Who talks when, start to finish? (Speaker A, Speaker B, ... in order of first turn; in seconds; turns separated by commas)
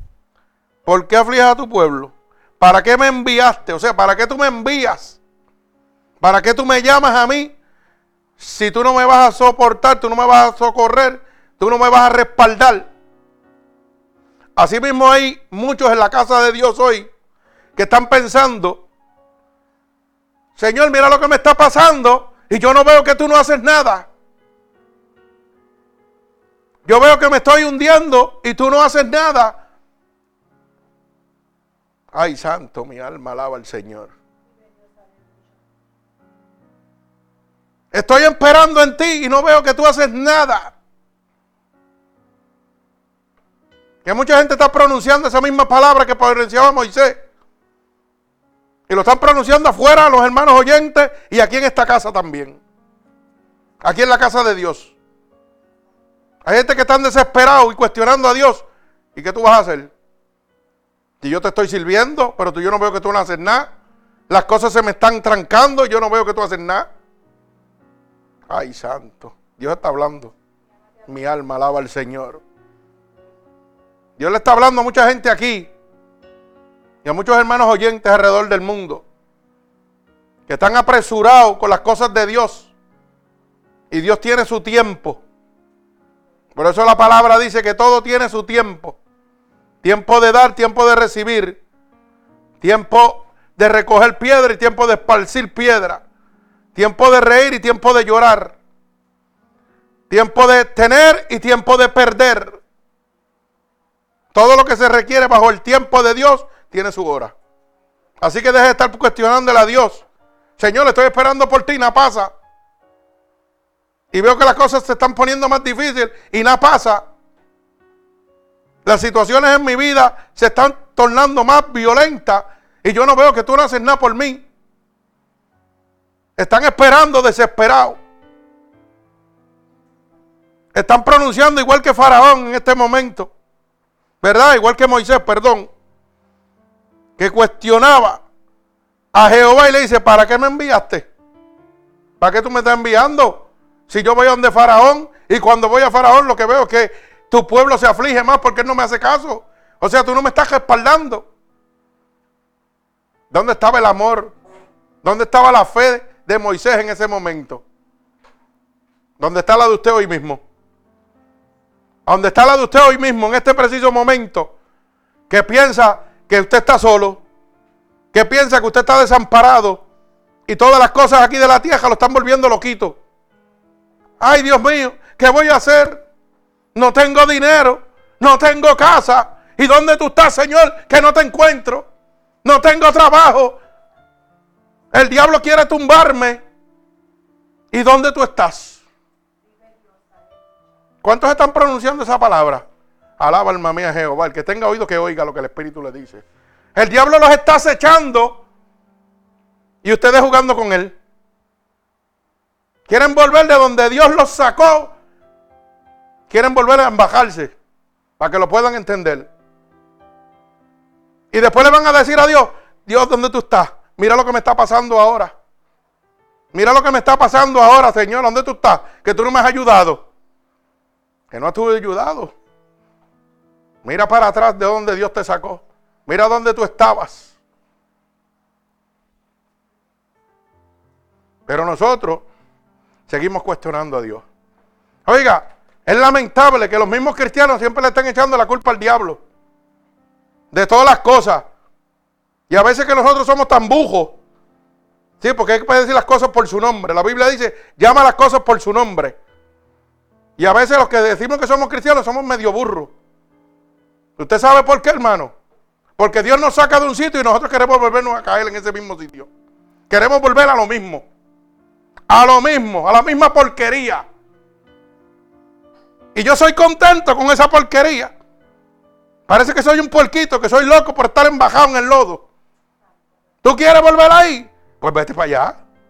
Speaker A: 0.8-5.2, Speaker A: 6.2-7.5, Speaker A: 8.4-12.8, Speaker A: 14.6-17.1, Speaker A: 17.8-18.8, Speaker A: 20.6-24.1, Speaker A: 26.9-29.5, Speaker A: 32.1-34.1, Speaker A: 37.9-40.7, Speaker A: 44.0-47.2, Speaker A: 48.9-52.6, Speaker A: 53.8-54.9, Speaker A: 56.4-59.9, Speaker A: 61.2-63.7, Speaker A: 64.3-66.8, Speaker A: 68.5-70.3, Speaker A: 71.0-72.4, Speaker A: 74.2-75.7, Speaker A: 77.0-79.0, Speaker A: 80.5-82.7, Speaker A: 83.9-85.2, Speaker A: 86.5-89.0, Speaker A: 89.8-91.6, Speaker A: 92.6-96.0, Speaker A: 96.7-98.5, Speaker A: 100.1-102.6, Speaker A: 104.3-107.3, Speaker A: 108.2-110.0, Speaker A: 110.6-112.3, Speaker A: 114.1-117.0, Speaker A: 118.8-124.4, Speaker A: 126.4-128.0, Speaker A: 130.7-133.3, Speaker A: 134.2-135.7, Speaker A: 137.2-138.2, Speaker A: 139.1-141.1, Speaker A: 142.2-151.2, Speaker A: 153.3-154.3, Speaker A: 155.0-157.6, Speaker A: 159.2-160.4, Speaker A: 162.1-164.5, Speaker A: 165.3-167.2, Speaker A: 168.1-169.8, Speaker A: 170.5-173.0, Speaker A: 174.2-176.0, Speaker A: 176.7-181.8, Speaker A: 182.4-183.6, Speaker A: 184.9-186.4, Speaker A: 187.7-188.8, Speaker A: 191.0-192.6, Speaker A: 193.2-198.4, Speaker A: 199.8-200.9, Speaker A: 202.9-204.9, Speaker A: 206.3-207.5, Speaker A: 208.2-209.3, Speaker A: 211.3-215.3, Speaker A: 216.5-220.0, Speaker A: 221.3-222.3, Speaker A: 223.8-227.3, Speaker A: 231.5-232.2, Speaker A: 233.1-234.2, Speaker A: 235.1-239.2, Speaker A: 240.5-241.4, Speaker A: 242.5-244.2, Speaker A: 245.2-249.1, Speaker A: 250.4-252.9, Speaker A: 254.2-255.3, Speaker A: 256.0-259.3, Speaker A: 259.9-261.0, Speaker A: 262.1-264.0, Speaker A: 266.1-268.1, Speaker A: 269.3-272.2, Speaker A: 273.4-275.5